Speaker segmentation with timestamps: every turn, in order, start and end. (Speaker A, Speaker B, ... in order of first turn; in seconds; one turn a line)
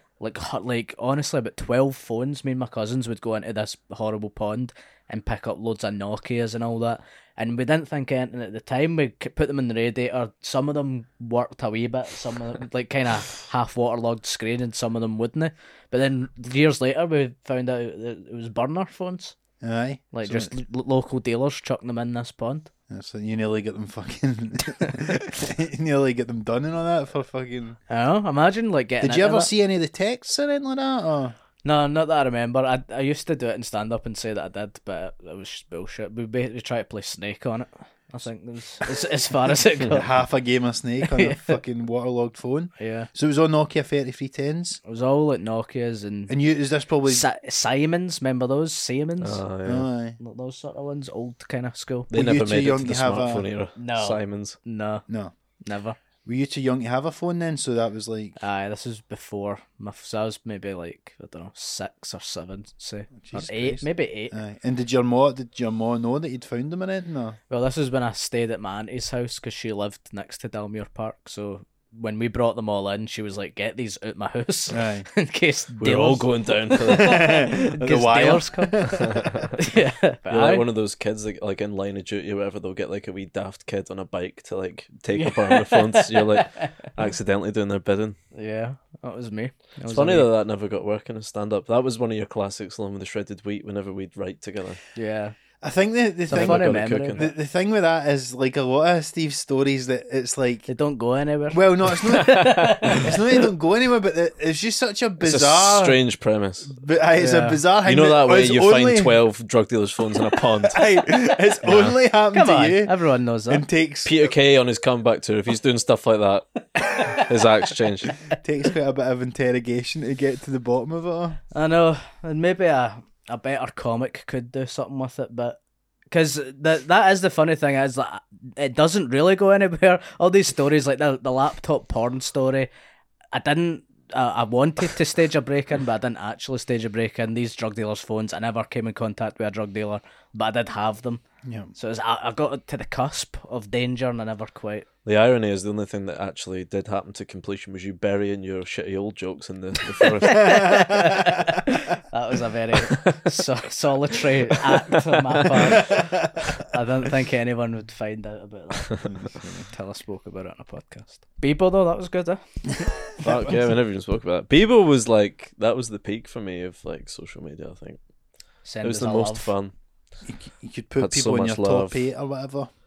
Speaker A: 0.2-19.4
Speaker B: 19.6-20.5
Speaker A: 20.1-22.7
Speaker B: 22.9-27.8
Speaker A: 27.9-29.5
Speaker B: 29.0-31.3
Speaker A: 31.6-40.1
Speaker B: 39.9-44.8
Speaker A: 41.0-41.6
Speaker A: 42.8-43.1
Speaker A: 44.9-46.4
Speaker B: 46.3-47.2
Speaker A: 47.0-49.4
Speaker C: 49.2-49.9
Speaker B: 49.6-50.2
Speaker A: 50.2-52.1
Speaker C: 52.1-54.6
Speaker B: 52.1-53.5
Speaker A: 53.8-55.0
Speaker B: 55.1-55.3
Speaker A: 55.6-56.0
Speaker B: 56.2-58.4
Speaker A: 58.4-64.4
Speaker B: 63.2-67.4
Speaker A: 67.5-79.0
Speaker B: 74.7-75.1
Speaker C: 75.8-77.3
Speaker B: 76.9-79.2
Speaker C: 78.9-79.6
Speaker A: 79.6-80.7
Speaker C: 80.3-88.2
Speaker A: 85.2-86.7
Speaker A: 88.3-90.3
Speaker C: 89.9-94.8
Speaker A: 95.0-95.4
Speaker B: 95.6-100.7
Speaker A: 96.3-97.2
Speaker C: 96.3-97.3
Speaker A: 100.7-103.1
Speaker B: 101.5-106.0
Speaker C: 102.3-102.9
Speaker C: 105.2-106.7
Speaker B: 106.7-109.2
Speaker A: 107.2-107.6
Speaker C: 107.8-110.8
Speaker B: 110.7-113.0
Speaker C: 111.7-111.9
Speaker A: 112.3-113.7
Speaker B: 113.5-114.3
Speaker C: 114.0-118.2
Speaker A: 116.8-117.3
Speaker B: 118.3-121.4
Speaker A: 121.5-125.6
Speaker A: 126.1-132.7
Speaker A: 133.3-141.2
Speaker B: 141.4-141.7
Speaker A: 141.7-144.9
Speaker C: 145.1-150.8
Speaker A: 150.3-159.1
Speaker B: 150.4-151.2
Speaker C: 155.4-155.8
Speaker B: 159.1-159.7
Speaker A: 159.6-162.4
Speaker C: 163.2-168.0
Speaker A: 168.7-169.5
Speaker C: 168.8-169.7
Speaker B: 170.2-172.7
Speaker C: 171.0-172.1